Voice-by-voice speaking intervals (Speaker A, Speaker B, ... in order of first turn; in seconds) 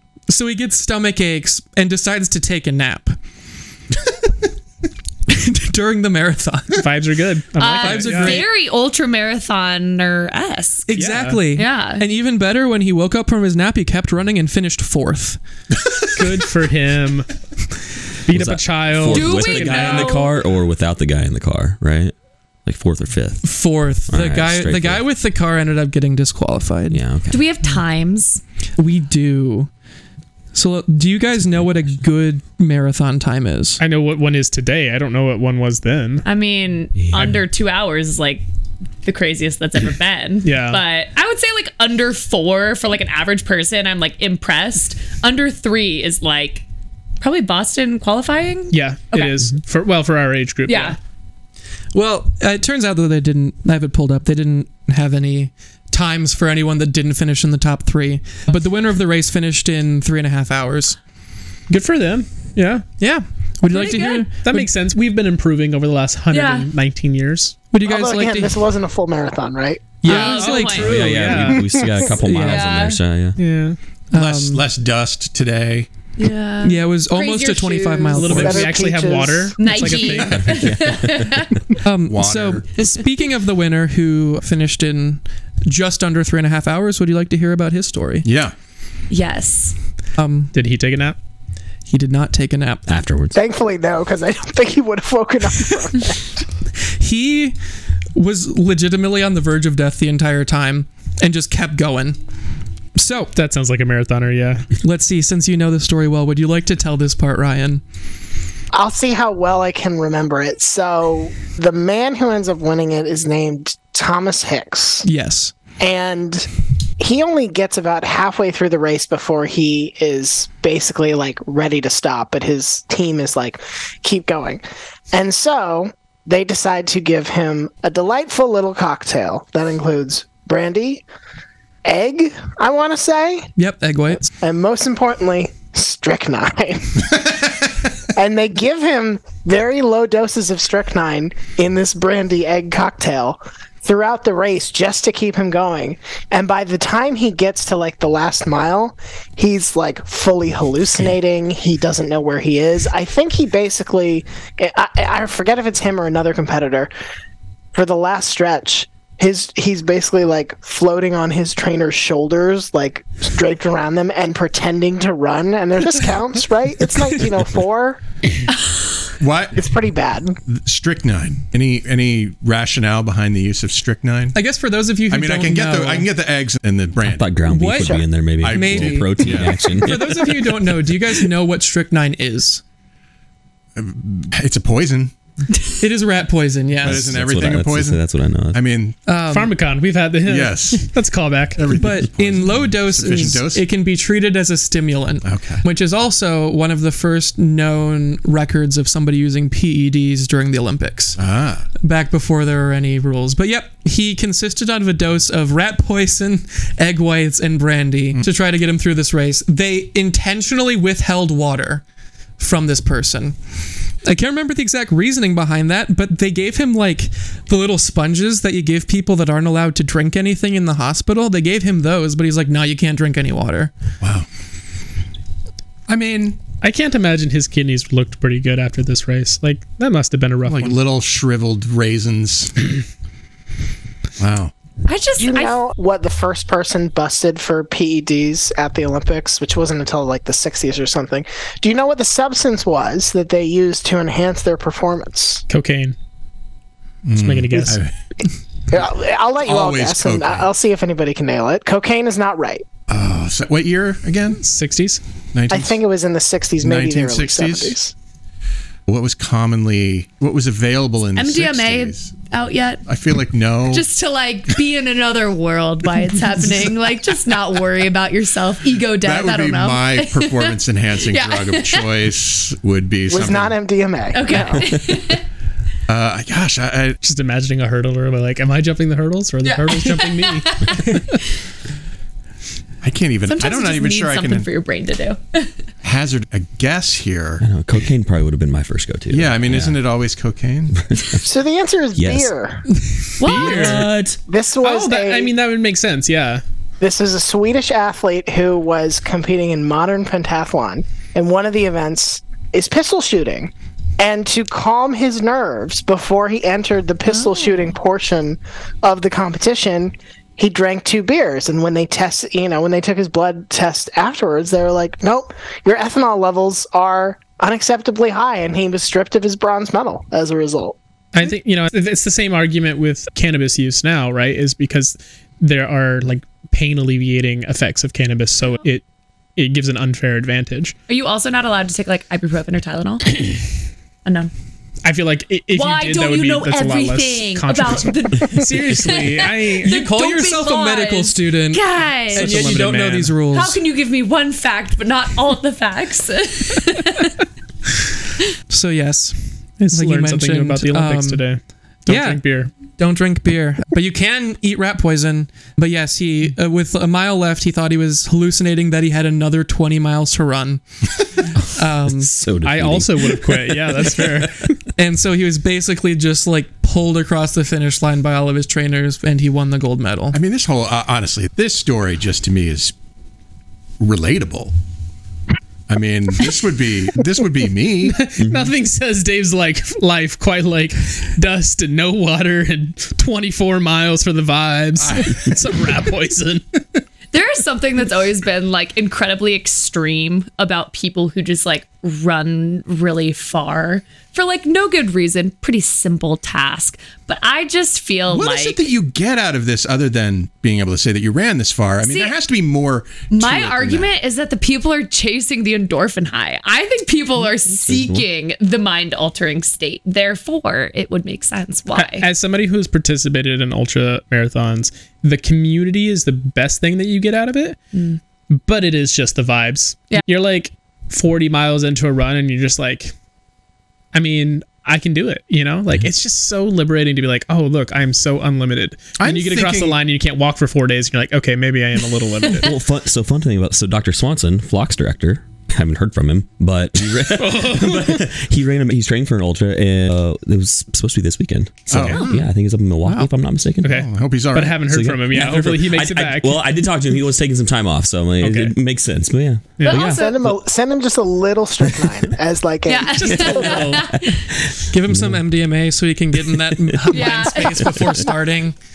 Speaker A: 0.3-3.2, 5.3-6.8, 7.8-8.5, 10.9-15.4, 23.4-27.0, 28.8-29.7, 30.5-33.8, 51.9-61.0, 63.0-64.7, 67.7-68.6, 70.0-70.9, 72.2-72.7, 74.1-74.6, 76.6-78.7, 81.8-88.3, 90.2-90.5, 91.9-92.8, 97.0-97.6, 98.1-102.2, 103.0-103.3, 104.8-107.8, 115.0-115.5, 133.6-134.3, 174.3-176.1, 177.5-182.6, 185.8-187.2, 189.1-189.5, 191.7-201.2, 201.8-211.8, 212.4-213.4, 214.0-223.7, 339.6-343.6, 348.5-351.2, 351.9-360.6, 361.6-362.1, 364.8-370.2, 454.7-458.6
Speaker B: 6.8-8.4, 10.9-11.4, 16.2-17.3, 18.3-20.2, 33.8-36.3, 40.4-40.8, 48.7-51.0, 61.7-62.9, 63.7-67.6, 70.0-72.0, 73.4-73.8, 78.2-80.7, 90.5-91.2, 103.3-104.7, 189.3-191.6, 226.6-230.8, 245.5-246.0, 247.2-247.8, 254.4-255.0, 277.0-281.1, 293.3-294.0, 294.6-296.4, 321.1-328.8, 329.4-330.8, 334.8-339.8, 342.1-343.2, 349.6-352.5, 362.4-364.5, 377.9-386.4, 411.7-417.6, 418.3-422.9, 423.9-432.6, 436.9-438.1, 443.6-446.5, 448.2-448.6, 449.6-449.9, 453.1-453.8
Speaker C: 7.6-10.9, 11.6-12.1, 19.0-20.4, 27.3-28.4, 36.2-38.5, 39.0-46.6, 47.2-49.5, 50.7-51.0, 66.3-66.7, 70.0-71.4, 72.4-73.0, 76.2-78.5, 79.6-81.6, 89.1-89.8, 234.8-235.6, 261.1-262.8, 263.7-271.9, 274.1-275.2, 279.4-281.0, 283.3-285.5, 293.2-293.9, 307.1-307.7, 330.9-333.3, 334.1-334.3, 335.5-342.6, 343.3-347.1, 387.1-398.7, 401.8-402.1, 403.1-412.1, 417.7-418.0, 449.7-450.2, 452.7-454.3, 456.9-458.1
Speaker D: 18.3-22.1, 22.7-23.5, 24.1-25.0, 26.9-27.4, 31.5-31.9, 37.0-37.4, 70.7-73.4, 80.2-81.5, 92.9-93.4, 177.0-180.3, 186.8-188.6, 287.4-289.8, 290.8-291.2, 292.0-292.3, 293.3-294.2, 361.8-364.4, 378.2-378.5, 407.6-408.1, 432.3-443.8, 444.6-449.6, 453.2-455.2, 456.3-457.7
Speaker E: 67.8-70.0, 78.3-79.7, 93.3-96.2, 108.7-115.1, 115.8-116.5, 117.0-131.1, 131.8-133.5, 134.4-137.0, 138.1-156.9, 157.7-168.0, 169.6-170.4, 235.2-245.4, 248.7-252.7, 255.5-257.9, 273.1-274.7, 291.2-292.6, 294.3-295.3, 296.8-320.8, 449.7-453.8
Speaker F: 74.1-75.9, 82.1-82.7, 88.2-88.5, 169.2-169.7, 170.5-174.4, 175.1-177.8, 178.4-179.9, 183.8-185.1, 186.8-189.0, 190.2-190.9, 191.6-193.7, 195.2-195.6, 201.2-201.7, 224.0-224.3, 225.9-226.4, 230.5-232.7, 234.2-234.5, 247.1-247.9, 249.4-250.5, 252.9-254.4, 255.3-255.8, 256.6-257.8, 258.9-262.1, 262.9-263.9, 269.0-273.6, 275.9-277.0, 282.8-284.5, 285.8-287.4, 289.1-290.8, 370.1-372.8, 373.8-374.6, 375.7-378.0, 384.8-385.4, 398.1-403.9, 429.0-429.8, 441.7-442.3, 443.6-444.6